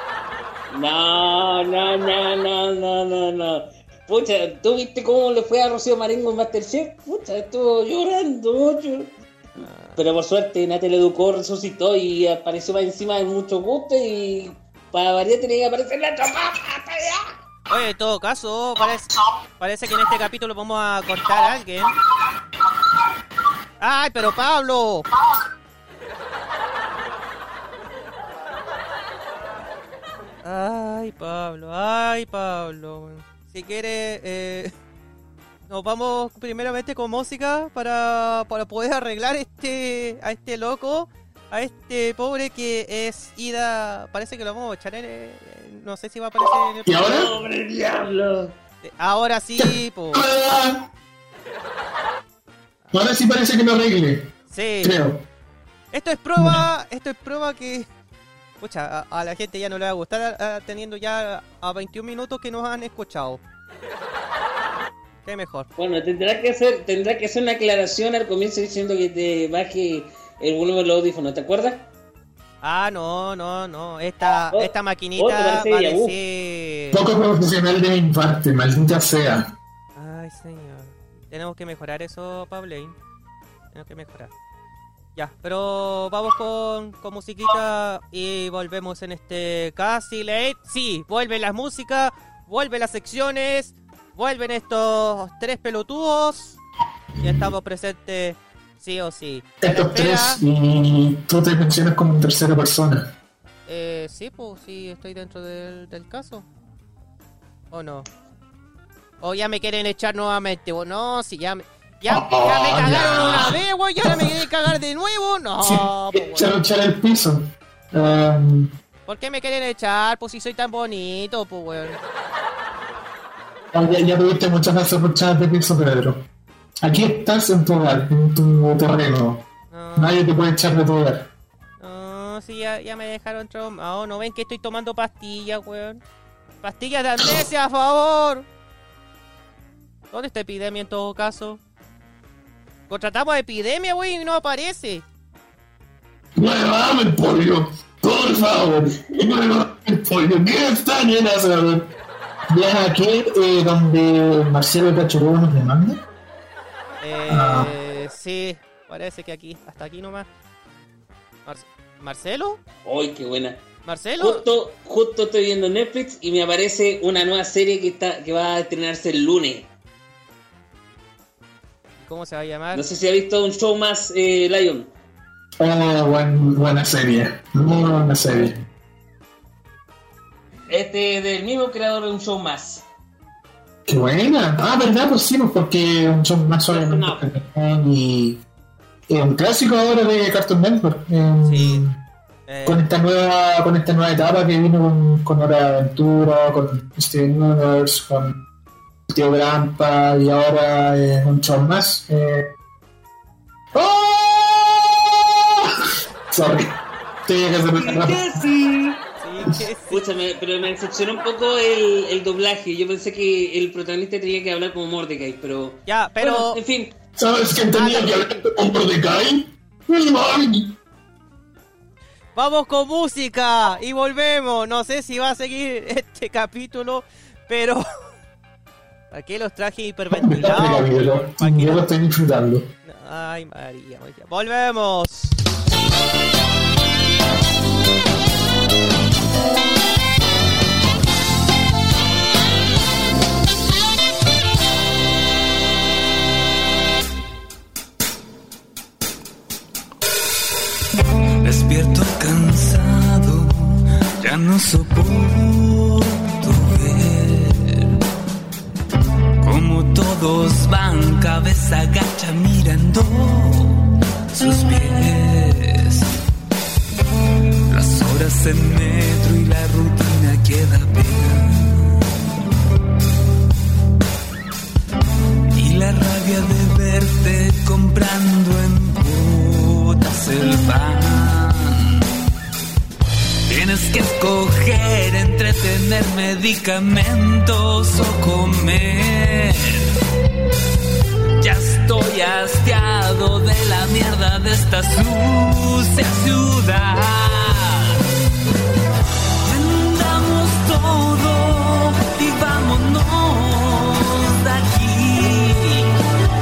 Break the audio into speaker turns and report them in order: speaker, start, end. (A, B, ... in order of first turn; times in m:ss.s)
0:00.7-0:09.1 A
0:09.6-0:10.0 B
0:10.0-0:17.3 A
0:17.7-0:22.0 B
0:23.8-0:25.1 B
0:30.4-0:34.7 B
0:35.7-0:47.0 B
0:46.9-0:47.3 C
0:46.9-0:48.5 A
0:48.8-0:50.3 B
0:49.6-0:50.8 C
0:52.9-0:54.3 C
0:54.5-0:54.9 B
0:54.8-0:55.2 C
0:55.9-0:57.9 B
0:56.4-0:56.6 C
0:58.6-1:03.4 B
1:05.2-1:05.7 B
1:05.8-1:11.8 A
1:12.6-1:17.0 B
1:14.5-1:16.2 A
1:16.9-1:19.5 C
1:20.0-1:23.0 B
1:23.7-1:24.3 B
1:25.2-1:36.6 B
1:37.2-1:40.4 B
1:39.6-1:43.1 C
1:43.7-1:46.5 B
1:47.7-1:48.1 B
1:49.2-1:56.5 B
1:52.1-1:54.3 C
1:55.6-1:58.7 C
1:59.1-2:02.0 B
2:03.7-2:06.2 C
2:06.8-2:09.4 C
2:09.7-2:10.2 B
2:10.0-2:11.3 C
2:11.8-2:16.0 B
2:16.6-2:18.5 B
2:20.1-2:21.6 B
2:22.9-2:25.0 B
2:26.4-2:31.9 C
2:32.5-2:36.0 C
2:37.0-2:40.3 B
2:37.3-2:37.7 C
2:41.5-2:42.6 B
2:42.8-2:43.6 A
2:43.9-2:44.4 B
2:44.2-2:49.7 A
2:52.0-2:52.8 B
2:52.7-2:54.9 A
2:55.6-2:58.5 C
3:00.7-3:02.8 A
3:03.9-3:08.4 C
3:06.7-3:07.3 A
3:09.1-3:12.0 C
3:11.4-3:11.8 B
3:12.5-3:12.9 B
3:12.7-3:18.4 C
3:19.1-3:22.5 C
3:23.8-3:25.7 C
3:26.3-3:28.4 C
3:27.8-3:29.0 A
3:29.2-3:30.0 B
3:29.9-3:36.9 A
3:35.9-3:36.6 B
3:37.2-3:40.7 C
3:37.7-3:38.4 B
3:42.4-3:47.8 B
3:49.1-3:51.8 B
3:50.1-3:52.7 C
3:52.8-3:55.4 B
4:11.4-4:13.5 D
4:14.2-4:17.8 D
4:19.4-4:23.8 D
4:24.3-4:26.0 D
4:27.7-4:32.0 D
4:35.6-4:41.9 D
4:43.5-4:49.8 D
4:51.4-4:58.0 D
4:59.5-5:05.9 D